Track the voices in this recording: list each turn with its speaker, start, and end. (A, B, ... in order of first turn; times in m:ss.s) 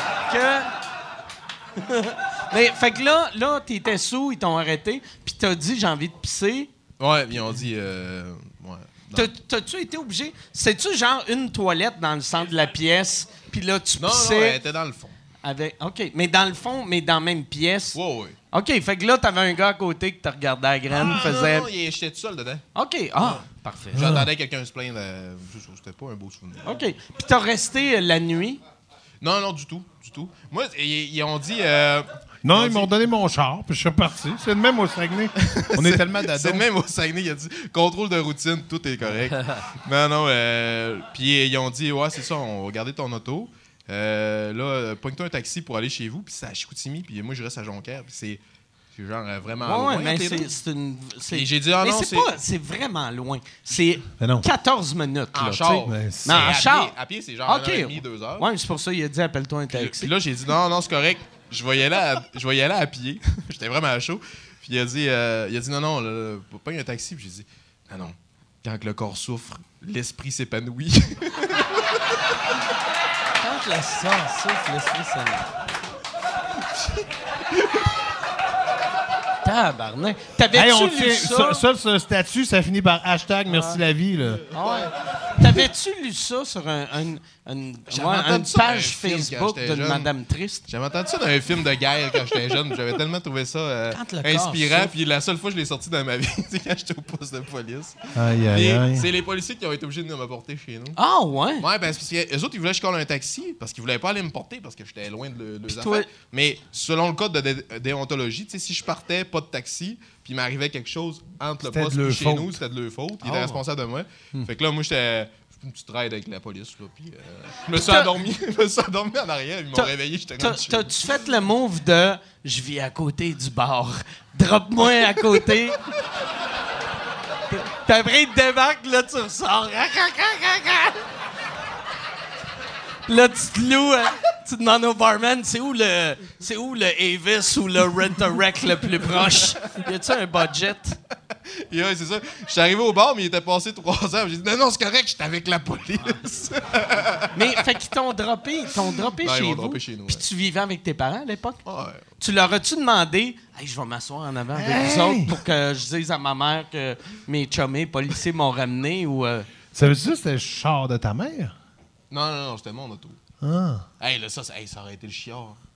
0:00.3-0:00.7 A
0:01.8-0:06.7 A
0:07.0-0:09.3 B
0:09.1-0:14.6 A
0:14.0-0:15.2 B
0:15.4-0:18.0 A
0:17.9-0:18.4 B
0:18.5-0:21.7 A
0:20.9-0:22.6 B
0:22.7-0:24.1 A
0:23.2-0:26.8 B
0:23.9-0:24.3 C
0:26.6-0:28.6 A
0:29.2-0:32.9 B
0:32.4-0:36.6 C
0:35.5-0:48.4 B
0:48.9-0:50.5 B
0:49.6-0:56.9 A
0:51.3-0:52.3 B
0:54.2-0:54.5 C
0:55.3-0:58.5 B
0:55.8-0:56.5 C
0:57.4-1:00.1 A
0:59.7-1:11.8 B
1:13.4-1:15.4 A
1:17.6-1:17.8 B
1:19.4-1:21.6 A
1:20.5-1:24.4 C
1:23.5-1:23.8 A
1:24.5-1:30.6 A
1:24.6-1:24.9 B
1:27.9-1:30.1 B
1:30.7-1:41.0 B
1:33.9-1:34.9 A
1:38.1-1:39.1 C
1:41.0-1:41.6 A
1:41.6-2:00.9 B
1:45.7-1:46.1 A
1:51.6-1:52.6 C
1:53.2-1:53.6 A
1:57.7-1:58.1 A
1:59.7-2:05.8 A
2:07.5-2:11.0 A
2:13.1-2:21.0 A
2:21.7-2:27.6 B
2:27.3-2:31.6 A
2:29.2-2:30.2 B
2:31.6-2:32.0 B
2:32.2-2:39.5 A
2:34.5-2:35.4 C
2:39.7-2:41.5 C
2:42.1-2:43.2 B
2:43.4-2:43.8 C
2:44.0-2:45.6 B